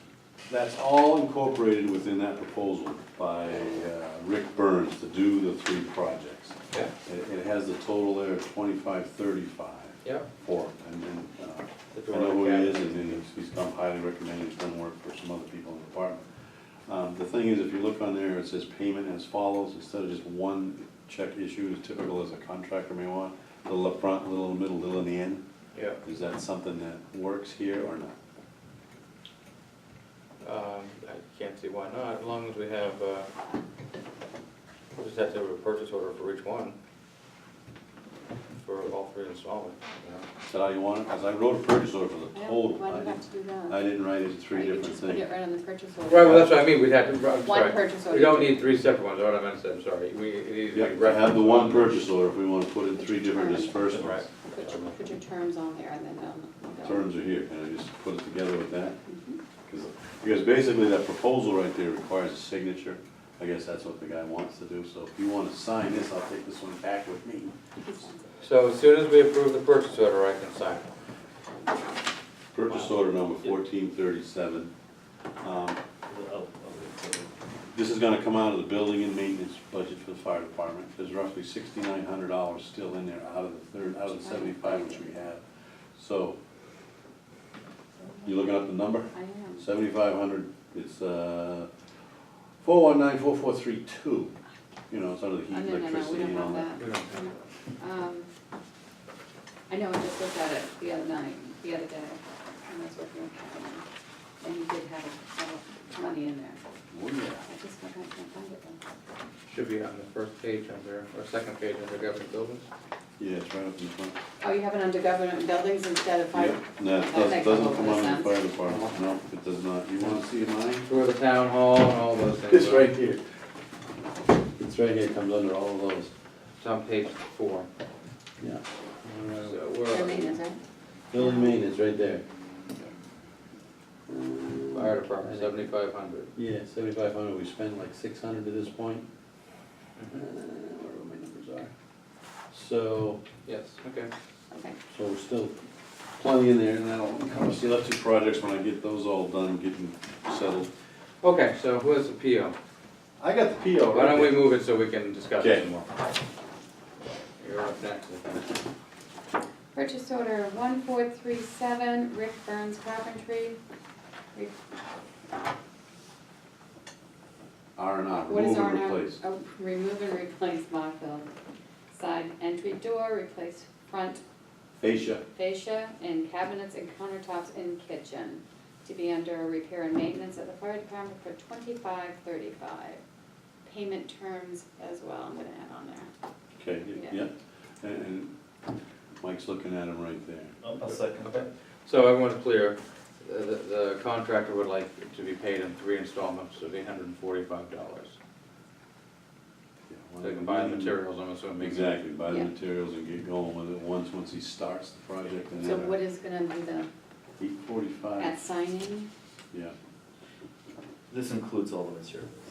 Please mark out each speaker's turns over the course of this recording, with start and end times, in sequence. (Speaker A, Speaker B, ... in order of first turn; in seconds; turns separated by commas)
Speaker A: 0.5-16.2, Speaker B: 11.9-13.2, Speaker A: 16.9-25.4, Speaker B: 25.7-26.0, Speaker A: 26.0-28.1, Speaker B: 30.4-33.3, Speaker B: 35.0-36.8, Speaker B: 38.6-40.3, Speaker A: 40.4-45.2, Speaker C: 42.3-43.8, Speaker C: 44.5-46.5, Speaker B: 46.0-52.1, Speaker A: 46.2-46.5, Speaker C: 47.4-48.6, Speaker A: 50.7-54.3, Speaker C: 53.0-53.9, Speaker B: 53.9-55.0, Speaker C: 54.5-57.1, Speaker A: 56.8-59.0, Speaker C: 59.1-59.4, Speaker A: 59.7-67.5, Speaker C: 67.8-68.2, Speaker B: 68.4-70.9, Speaker A: 72.5-74.7, Speaker B: 72.7-73.5, Speaker A: 75.4-75.8, Speaker D: 76.1-77.3, Speaker A: 77.7-85.4, Speaker C: 84.1-85.1, Speaker A: 86.0-86.4, Speaker C: 88.0-89.6, Speaker A: 88.2-91.7, Speaker A: 92.6-94.3, Speaker A: 94.9-96.8, Speaker C: 95.5-98.3, Speaker B: 96.8-97.1, Speaker C: 99.7-103.8, Speaker C: 104.4-106.6, Speaker A: 106.9-107.5, Speaker C: 107.5-108.8, Speaker B: 109.5-112.7, Speaker A: 113.2-114.2, Speaker C: 114.4-118.6, Speaker A: 116.3-120.9, Speaker B: 120.8-122.9, Speaker A: 122.4-123.2, Speaker A: 124.6-126.1, Speaker B: 126.6-127.7, Speaker A: 128.4-129.6, Speaker B: 129.4-130.4, Speaker C: 129.9-130.6, Speaker A: 131.1-132.2, Speaker C: 131.2-131.6, Speaker A: 134.1-135.6, Speaker B: 134.7-136.3, Speaker A: 136.3-139.1, Speaker A: 140.1-141.7, Speaker A: 142.5-143.2, Speaker B: 143.5-144.1, Speaker C: 144.5-144.8, Speaker A: 144.9-145.5, Speaker A: 146.2-150.7, Speaker B: 151.2-152.6, Speaker A: 153.2-154.5, Speaker B: 153.9-155.9, Speaker A: 155.4-155.7, Speaker B: 157.4-158.5, Speaker C: 159.7-163.6, Speaker A: 167.8-169.2, Speaker C: 168.3-171.3, Speaker C: 171.9-174.2, Speaker A: 174.8-175.2, Speaker C: 175.3-183.0, Speaker C: 183.7-186.1, Speaker A: 186.6-188.3, Speaker A: 189.2-190.6, Speaker D: 190.6-191.5, Speaker B: 190.8-198.2, Speaker A: 199.9-201.0, Speaker B: 200.2-202.0, Speaker A: 201.6-206.0, Speaker C: 205.6-206.9, Speaker A: 207.4-208.4, Speaker C: 208.2-209.1, Speaker D: 211.1-212.3